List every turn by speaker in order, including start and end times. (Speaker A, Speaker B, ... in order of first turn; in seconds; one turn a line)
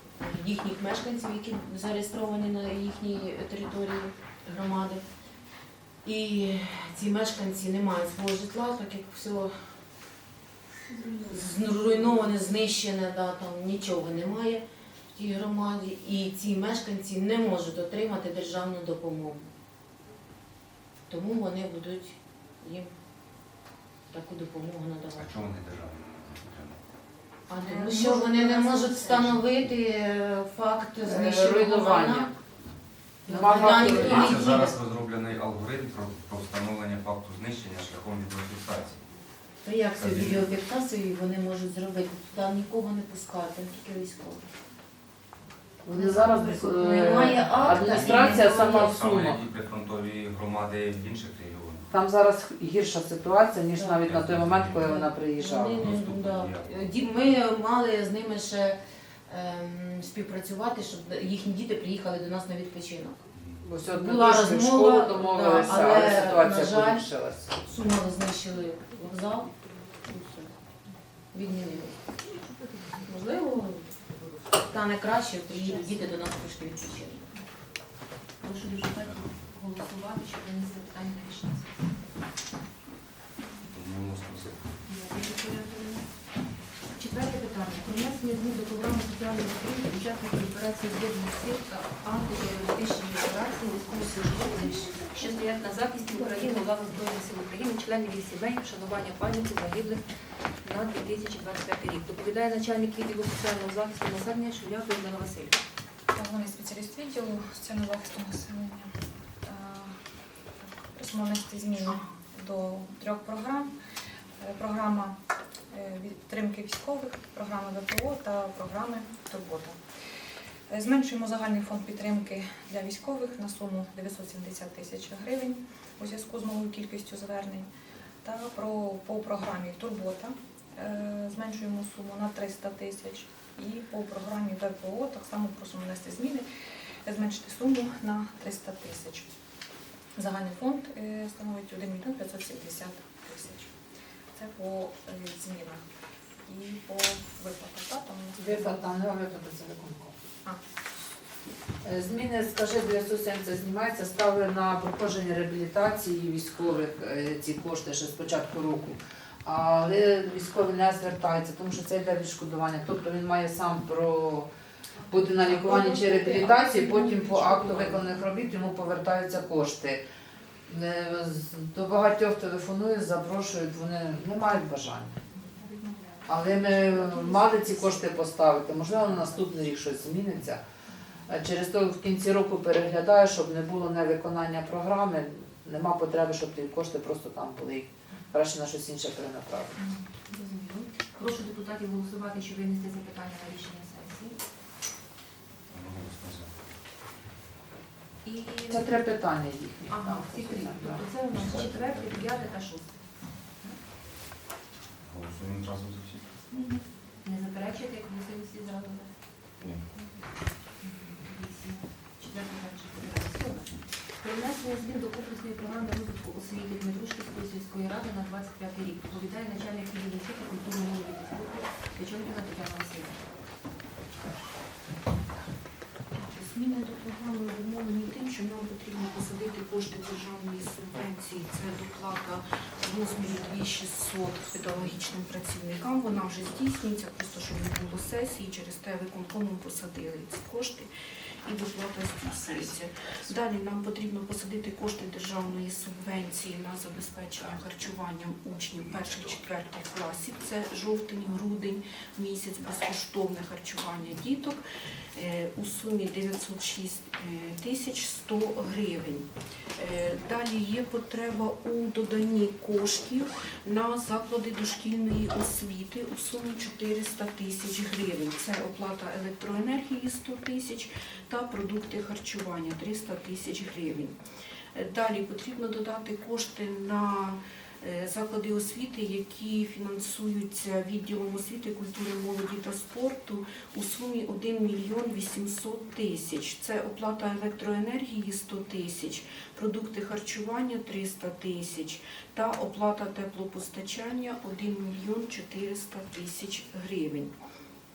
Speaker A: 0.2-5.0
Speaker A: 6.0-9.6
Speaker A: 11.3-19.5
Speaker A: 21.1-22.9
Speaker A: 24.1-25.4
Speaker B: 25.1-26.8
Speaker A: 27.5-32.3
Speaker C: 27.5-29.4
Speaker D: 31.0-32.4
Speaker D: 33.2-34.5
Speaker A: 33.3-34.8
Speaker B: 33.7-39.0
Speaker A: 39.6-44.5
Speaker B: 40.0-40.5
Speaker D: 45.8-49.4
Speaker A: 45.9-48.9
Speaker B: 47.3-51.9
Speaker D: 51.9-55.9
Speaker A: 53.7-54.0
Speaker B: 54.0-55.0
Speaker A: 54.8-63.2
Speaker B: 55.6-56.9
Speaker B: 63.3-63.6
Speaker D: 63.6-67.5
Speaker A: 63.8-67.1
Speaker A: 67.6-69.5
Speaker A: 70.0-70.5
Speaker A: 71.3-72.0
Speaker A: 72.9-73.9
Speaker A: 74.6-77.3
Speaker C: 78.4-82.0
Speaker B: 83.7-84.7
Speaker C: 84.8-86.0
Speaker C: 87.0-100.0
Speaker C: 100.6-105.6
Speaker E: 106.1-108.9
Speaker E: 109.4-110.0
Speaker E: 110.8-113.7
Speaker E: 114.4-115.2
Speaker E: 115.7-119.8
Speaker E: 120.7-127.7
Speaker E: 128.2-136.4
Speaker E: 137.1-139.3
Speaker E: 140.2-143.7
Speaker E: 144.3-145.8
Speaker E: 146.4-148.8
Speaker D: 148.3-150.1
Speaker D: 151.8-164.5
Speaker D: 165.1-170.0
Speaker C: 166.2-166.5
Speaker C: 167.0-167.5
Speaker D: 170.7-175.2
Speaker D: 176.3-180.6
Speaker C: 176.6-178.2
Speaker D: 181.3-189.8
Speaker C: 189.8-194.4
Speaker B: 195.7-196.5
Speaker C: 198.2-199.0
Speaker D: 198.7-201.1
Speaker C: 199.9-203.8
Speaker B: 201.5-202.4
Speaker B: 205.0-206.3
Speaker C: 206.6-209.1
Speaker C: 210.8-223.2
Speaker F: 226.1-240.9
Speaker F: 241.4-254.6
Speaker F: 255.1-274.2
Speaker F: 274.7-297.3